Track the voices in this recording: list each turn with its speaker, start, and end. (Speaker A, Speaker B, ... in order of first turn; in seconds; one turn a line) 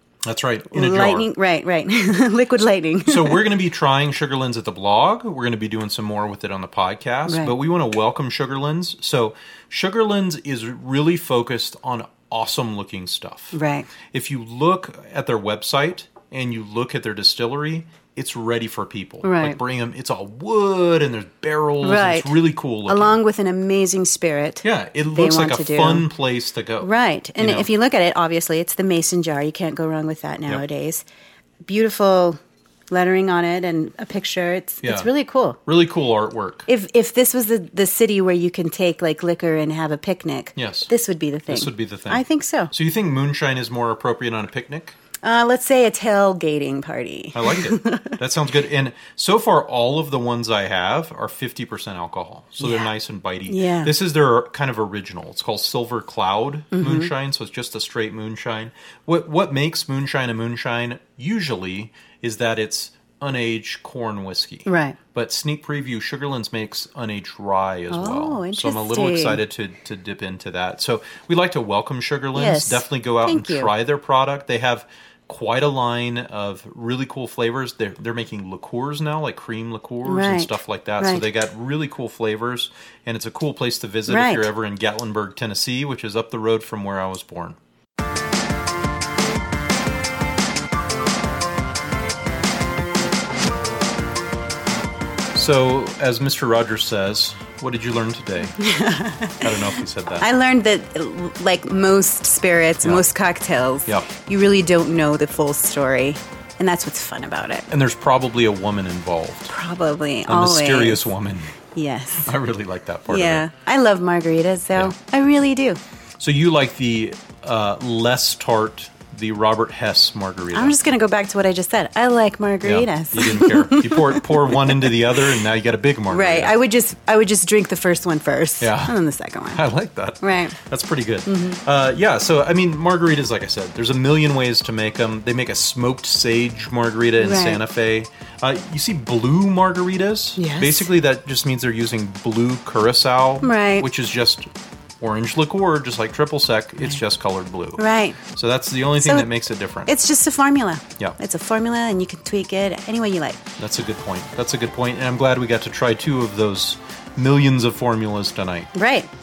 Speaker A: 0.2-1.3
Speaker B: 0.7-3.5
Speaker A: 3.0-13.6
Speaker B: 7.3-7.5
Speaker B: 13.5-13.9
Speaker A: 14.1-23.2
Speaker B: 19.2-19.6
Speaker B: 21.8-26.1
Speaker A: 24.6-27.7
Speaker B: 26.8-31.0
Speaker B: 31.6-32.4
Speaker B: 32.9-35.6
Speaker A: 34.8-35.1
Speaker A: 35.6-36.7
Speaker B: 36.7-42.7
Speaker A: 40.5-40.9
Speaker A: 41.5-45.0
Speaker B: 45.2-48.2
Speaker A: 47.3-87.6
Speaker B: 52.6-52.9
Speaker B: 53.5-53.9
Speaker B: 56.7-57.1
Speaker B: 64.7-65.0
Speaker B: 67.9-69.4
Speaker B: 72.3-73.7
Speaker B: 80.0-81.2
Speaker B: 84.1-84.5
Speaker A: 95.3-98.6
Speaker B: 98.5-107.7
Speaker A: 99.4-100.3
Speaker A: 107.7-109.5
Speaker B: 109.5-111.0
Speaker A: 110.3-111.5
Speaker B: 111.7-112.3
Speaker A: 112.2-113.4
Speaker B: 113.1-115.8
Speaker A: 116.2-120.8
Speaker B: 120.5-125.2
Speaker A: 122.6-126.5
Speaker B: 126.1-129.6
Speaker A: 128.6-128.9
Speaker A: 129.5-144.5
Speaker B: 130.2-130.6
Speaker B: 131.2-131.6
Speaker B: 137.2-137.6
Speaker B: 140.4-140.9
Speaker B: 143.4-143.9
Speaker A: 145.0-149.9
Speaker B: 147.8-148.2
Speaker B: 149.0-149.3
Speaker B: 149.8-153.4
Speaker A: 153.6-158.7
Speaker B: 158.7-159.1